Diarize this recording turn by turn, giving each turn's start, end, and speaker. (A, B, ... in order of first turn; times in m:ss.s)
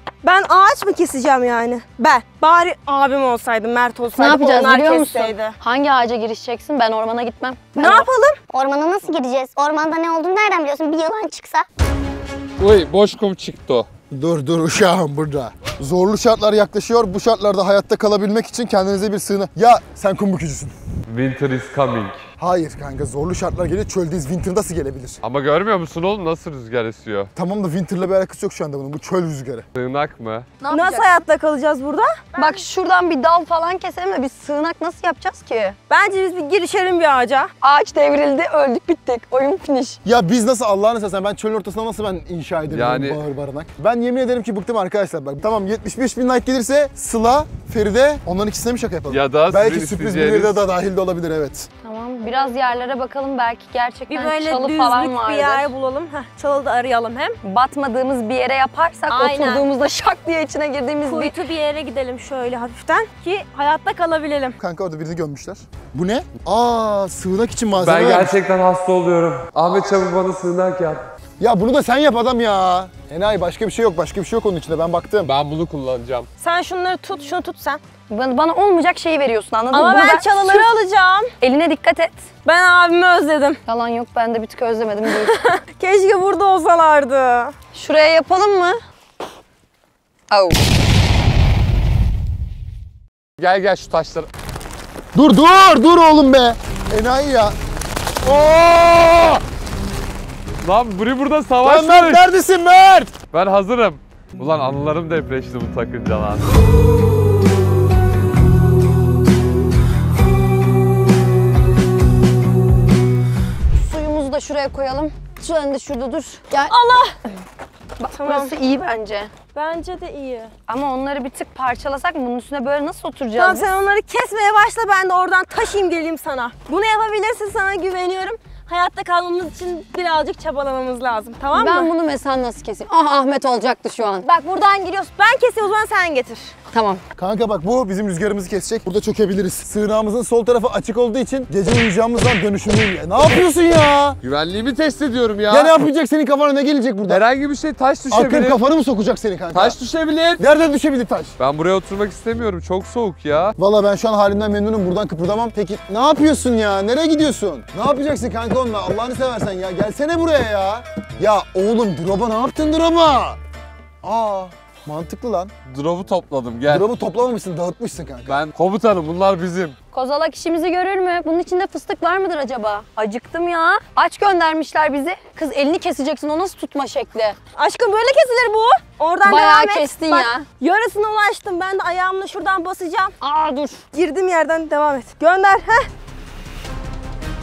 0:00.2-0:05.6 A
0:04.1-0:08.0 B
0:07.7-0:08.4 A
0:08.5-0:11.6 C
0:12.6-0:13.9 D
0:14.1-0:20.7 E
0:21.1-0:22.2 D
0:22.4-0:25.2 E
0:25.2-0:27.3 D
0:27.4-0:29.6 E
0:29.7-0:30.5 D
0:30.6-0:31.1 B
0:30.7-0:32.6 A
0:32.3-0:35.8 B
0:35.9-0:37.5 A
0:37.6-0:40.0 B
0:40.0-0:51.7 E
0:42.7-0:43.2 D
0:49.1-0:50.6 D
0:51.8-0:55.7 B
0:54.1-0:57.4 A
0:57.4-1:01.4 B
0:59.1-0:59.6 A
1:01.0-1:04.6 A
1:04.6-1:08.4 E
1:07.8-1:11.0 D
1:11.4-1:15.3 E
1:15.2-1:16.3 D
1:16.4-1:17.8 A
1:18.1-1:20.7 B
1:19.7-1:21.3 A
1:21.4-1:22.2 B
1:22.4-1:23.6 A
1:23.6-1:25.4 B
1:25.1-1:27.5 A
1:27.7-1:28.8 B
1:30.3-1:30.6 B
1:33.4-1:34.3 D
1:35.1-1:37.6 E
1:38.2-1:39.4 E
1:40.6-1:42.2 D
1:41.6-1:43.2 E
1:43.3-1:46.4 D
1:53.7-1:56.7 B
1:56.7-1:57.2 A
1:58.0-1:59.3 B
1:58.1-1:58.5 A
1:59.5-2:00.5 A
2:00.7-2:03.6 B
2:03.3-2:11.9 A
2:11.5-2:14.3 B
2:14.2-2:16.5 A
2:16.7-2:17.0 B
2:17.2-2:24.2 E
2:24.2-2:25.8 D
2:25.5-2:27.2 E
2:27.1-2:28.6 D
2:28.1-2:29.8 E
2:29.5-2:30.4 D
2:30.4-2:31.4 E
2:31.4-2:33.6 D
2:33.6-2:43.4 E
2:44.0-2:45.5 E
2:45.7-2:46.9 D
2:46.7-2:48.4 E
2:48.3-2:49.7 D
2:49.9-2:57.4 B
2:57.5-3:03.1 A
2:59.2-3:00.5 B
3:03.2-3:03.8 B
3:03.9-3:05.9 A